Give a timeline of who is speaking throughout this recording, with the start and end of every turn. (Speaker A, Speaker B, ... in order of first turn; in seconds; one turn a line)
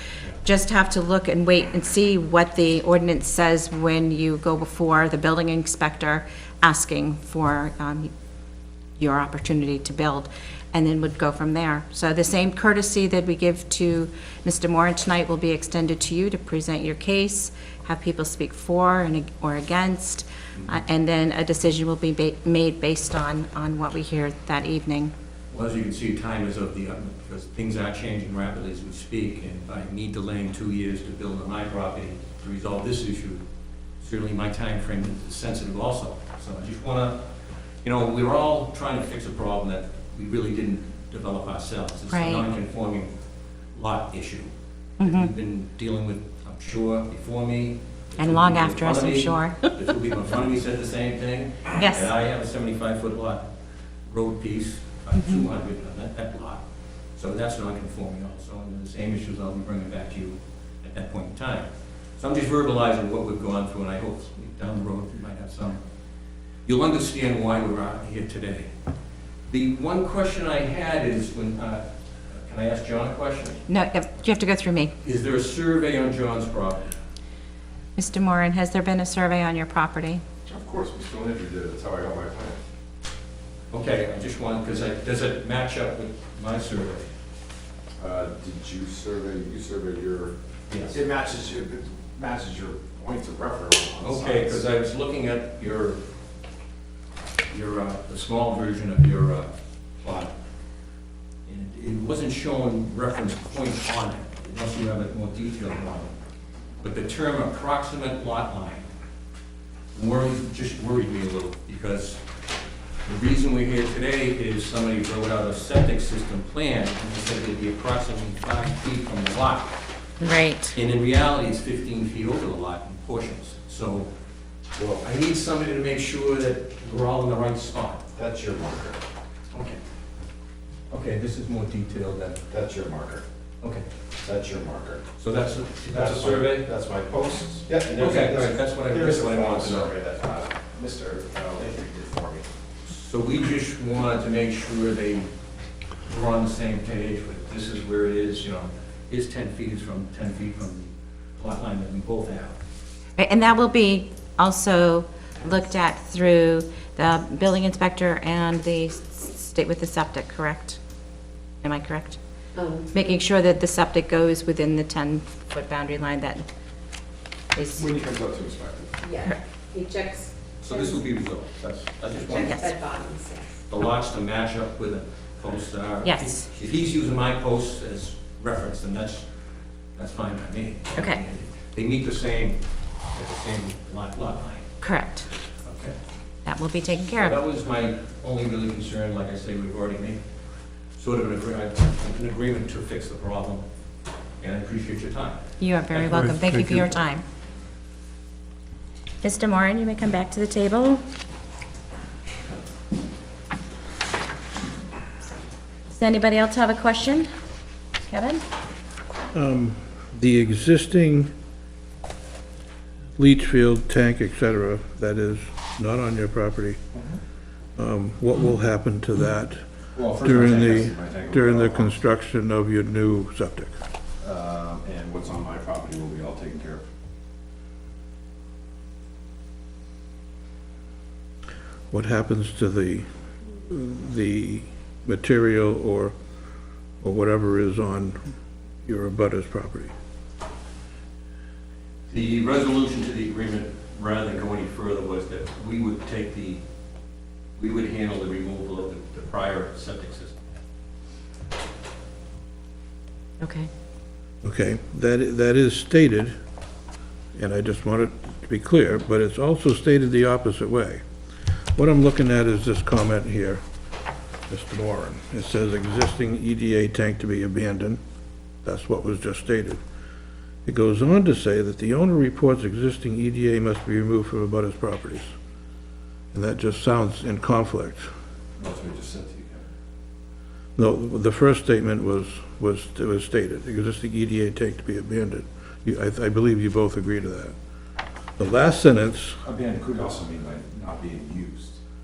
Speaker A: 0.4-8.1
Speaker A: 9.0-25.1
Speaker B: 25.5-33.4
Speaker B: 34.0-37.2
Speaker B: 37.8-43.1
Speaker A: 42.1-42.4
Speaker B: 43.7-53.4
Speaker A: 45.0-45.3
Speaker A: 48.2-49.7
Speaker A: 51.8-52.1
Speaker B: 54.0-56.6
Speaker B: 57.1-61.7
Speaker B: 62.2-65.8
Speaker B: 66.6-68.7
Speaker B: 69.5-73.6
Speaker A: 73.7-74.9
Speaker B: 75.0-76.9
Speaker A: 78.0-80.2
Speaker C: 80.5-82.6
Speaker B: 83.7-87.1
Speaker C: 88.0-90.3
Speaker B: 90.7-91.0
Speaker C: 90.9-94.6
Speaker B: 94.0-96.0
Speaker B: 97.5-99.5
Speaker B: 100.0-100.3
Speaker B: 101.5-106.1
Speaker B: 106.8-108.9
Speaker B: 109.9-112.2
Speaker B: 113.0-119.8
Speaker A: 120.2-120.8
Speaker B: 120.7-124.1
Speaker B: 125.0-128.0
Speaker C: 128.1-129.0
Speaker B: 129.5-129.8
Speaker B: 130.9-132.4
Speaker C: 132.5-133.2
Speaker C: 134.2-135.0
Speaker B: 135.2-136.7
Speaker C: 135.9-142.5
Speaker B: 137.9-139.9
Speaker B: 142.9-145.3
Speaker B: 146.1-152.6
Speaker A: 153.2-160.8
Speaker A: 161.6-162.2
Speaker D: 162.6-162.8
Speaker A: 162.9-166.4
Speaker A: 167.5-167.8
Speaker C: 167.7-169.0
Speaker D: 169.0-170.3
Speaker B: 170.6-172.8
Speaker A: 172.4-172.7
Speaker D: 172.6-173.5
Speaker B: 173.7-179.3
Speaker A: 176.0-176.5
Speaker B: 179.9-182.6
Speaker B: 183.1-184.7
Speaker A: 184.8-185.3
Speaker B: 185.6-185.9
Speaker A: 186.4-187.4
Speaker B: 187.0-190.2
Speaker B: 191.0-193.6
Speaker B: 194.4-195.4
Speaker A: 195.6-197.2
Speaker E: 196.1-196.8
Speaker A: 199.2-201.0
Speaker A: 205.9-207.3
Speaker A: 208.0-208.4
Speaker E: 209.3-211.3
Speaker E: 213.2-216.8
Speaker E: 217.8-223.7
Speaker C: 219.9-222.0
Speaker C: 224.2-226.8
Speaker E: 231.9-236.1
Speaker E: 237.0-238.2
Speaker E: 238.8-239.9
Speaker B: 242.1-246.6
Speaker B: 247.6-250.3
Speaker A: 253.4-253.7
Speaker E: 254.4-256.4
Speaker E: 257.4-261.0
Speaker E: 261.7-263.6
Speaker E: 264.5-268.0
Speaker E: 268.6-269.8
Speaker E: 270.6-275.3
Speaker E: 276.3-278.1
Speaker C: 278.6-279.6
Speaker E: 280.8-287.5
Speaker E: 288.4-289.4
Speaker C: 289.4-291.8